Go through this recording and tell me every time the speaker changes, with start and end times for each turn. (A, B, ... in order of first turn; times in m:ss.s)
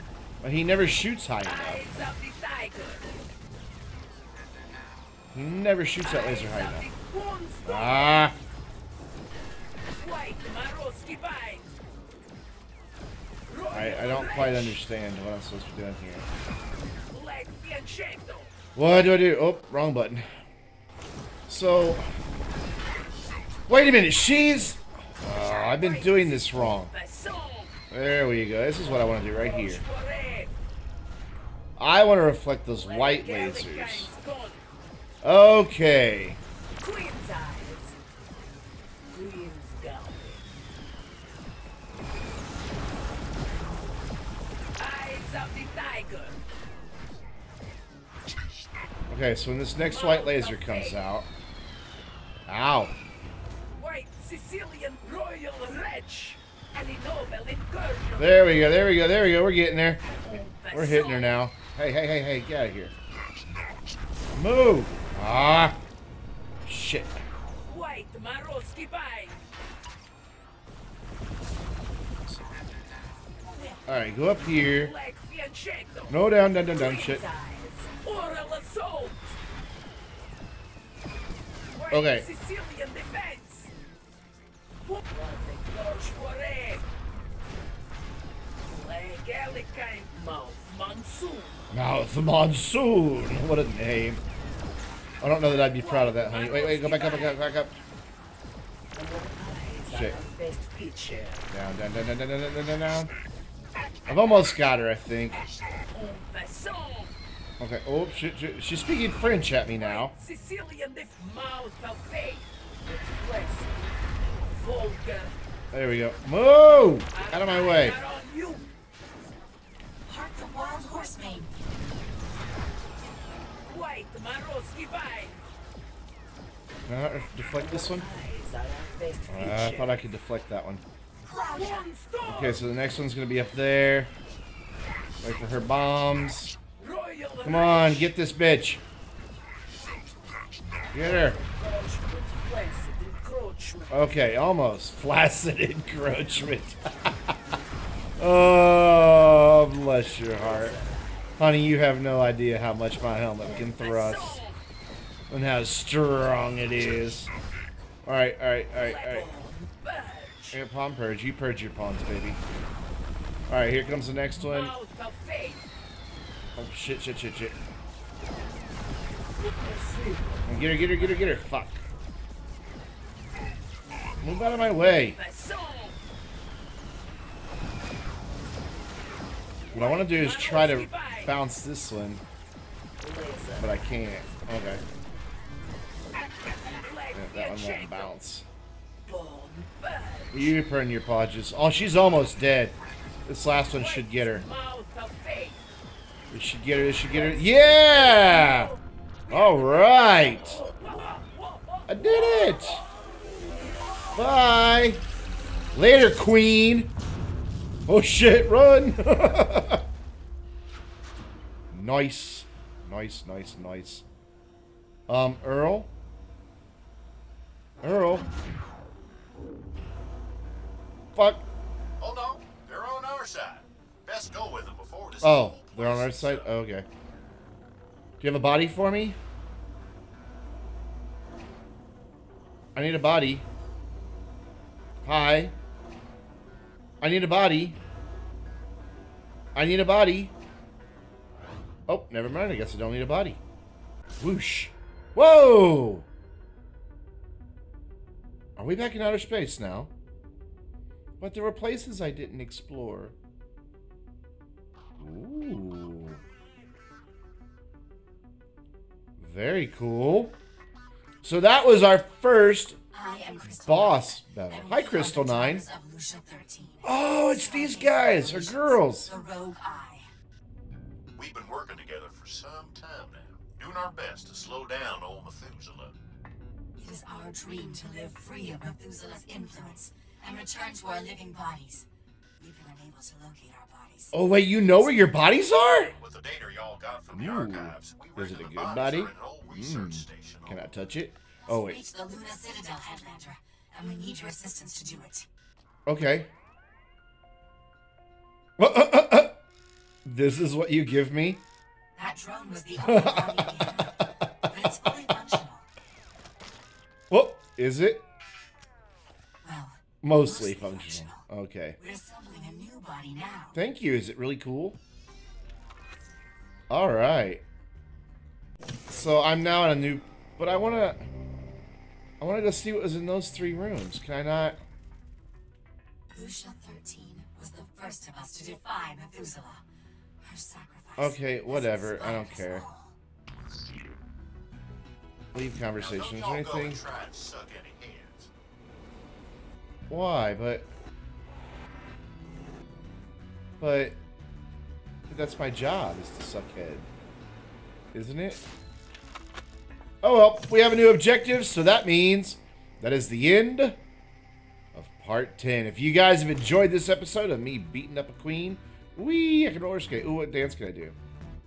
0:00.4-0:01.8 A
0:01.4-0:03.0 B
0:05.3-0:06.9 A
0:06.0-0:08.3 B
0:07.6-0:08.4 A
0:10.0-0:11.7 B
0:13.5-0:14.8 B
0:13.7-0:16.3 A
0:17.1-0:18.5 B
0:18.8-0:20.3 A
0:21.5-0:22.1 A
0:23.7-0:26.9 A
0:25.2-0:27.8 B
0:27.9-0:29.8 A
0:28.8-0:30.5 B
0:31.8-0:34.1 A
0:32.8-0:34.7 B
0:35.2-0:36.4 A
0:36.8-0:38.0 B
0:39.1-0:40.5 B
0:44.8-0:46.4 B
0:49.1-0:51.3 A
0:49.8-0:51.0 B
0:52.5-0:53.0 A
0:53.8-0:58.5 B
0:58.2-1:02.9 A
1:00.1-1:01.3 B
1:04.4-1:05.8 A
1:06.6-1:07.2 A
1:07.5-1:09.4 B
1:13.9-1:14.9 A
1:14.6-1:19.4 B
1:16.1-1:17.2 A
1:21.7-1:23.7 B
1:21.9-1:22.3 A
1:24.8-1:26.8 B
1:28.6-1:31.6 B
1:31.7-1:34.2 A
1:35.2-1:37.8 A
1:35.5-1:37.4 B
1:38.9-1:41.5 B
1:39.9-1:40.2 A
1:41.5-1:43.1 A
1:44.1-1:45.4 A
1:45.9-1:47.2 B
1:47.6-1:50.1 A
1:49.8-1:55.4 B
1:55.7-1:58.0 A
1:57.1-1:58.6 B
2:00.1-2:01.6 C
2:03.6-2:05.4 B
2:06.9-2:08.1 A
2:07.5-2:10.1 B
2:09.3-2:10.8 A
2:11.2-2:11.9 C
2:11.5-2:12.6 B
2:12.3-2:14.1 A
2:15.2-2:16.6 A
2:16.8-2:18.1 B
2:17.4-2:18.8 A
2:20.9-2:21.4 A
2:20.9-2:24.0 B
2:23.9-2:27.4 A
2:28.2-2:30.8 A
2:30.3-2:31.4 B
2:31.4-2:34.4 A
2:33.4-2:34.6 B
2:35.3-2:37.3 A
2:38.0-2:39.3 A
2:38.8-2:40.6 B
2:40.5-2:42.4 A
2:43.5-2:44.7 A
2:43.9-2:45.7 B
2:46.6-2:47.6 A
2:49.4-2:51.4 B
2:50.5-2:51.8 A
2:54.2-2:55.2 A
2:54.8-2:56.0 B
2:59.7-3:01.3 B
2:59.7-3:02.2 A
3:03.0-3:03.8 B
3:03.6-3:04.8 A
3:06.7-3:08.1 B
3:07.1-3:08.5 A
3:09.0-3:10.6 B
3:10.3-3:14.4 A
3:13.7-3:15.7 B
3:16.3-3:18.7 A
3:17.1-3:22.9 B
3:19.3-3:20.6 A
3:21.9-3:22.8 A
3:24.2-3:25.0 A
3:25.7-3:26.9 A
3:27.9-3:29.8 A
3:31.7-3:34.0 A
3:35.1-3:35.9 A
3:37.8-3:38.3 A
3:41.1-3:41.4 A
3:42.0-3:46.5 D
3:45.2-3:46.9 A
3:48.2-3:49.2 A
3:52.8-3:53.5 A
3:55.0-3:55.5 A
3:57.0-3:57.8 A
3:59.6-4:00.3 A
4:01.9-4:03.4 A
4:04.2-4:06.1 A
4:08.6-4:09.9 A
4:11.2-4:13.2 A
4:15.0-4:16.2 A
4:19.2-4:20.4 A
4:21.2-4:22.8 A
4:22.9-4:30.1 C
4:23.6-4:25.6 A
4:26.8-4:29.1 A
4:31.2-4:35.9 D
4:36.8-4:41.9 C
4:42.4-4:45.3 C
4:44.1-4:46.0 A
4:45.8-4:50.7 D
4:47.1-4:51.8 A
4:51.5-4:55.3 C
4:55.9-4:56.3 A
4:58.6-4:59.4 A
5:00.0-5:01.4 A
5:02.0-5:05.7 C
5:02.8-5:03.9 A
5:04.6-5:05.1 A
5:07.1-5:08.0 A
5:09.4-5:11.3 C
5:10.0-5:11.8 A
5:11.8-5:13.6 C
5:13.5-5:14.8 A
5:16.7-5:17.4 A
5:18.9-5:21.1 A
5:22.2-5:24.6 A
5:26.1-5:29.6 C
5:30.2-5:33.0 C
5:31.0-5:32.7 A
5:35.3-5:36.8 A
5:35.8-5:38.3 D
5:39.9-5:40.7 A
5:43.6-5:44.0 A
5:45.1-5:46.9 A
5:47.9-5:48.4 A
5:50.0-5:53.8 A
5:54.7-6:01.0 A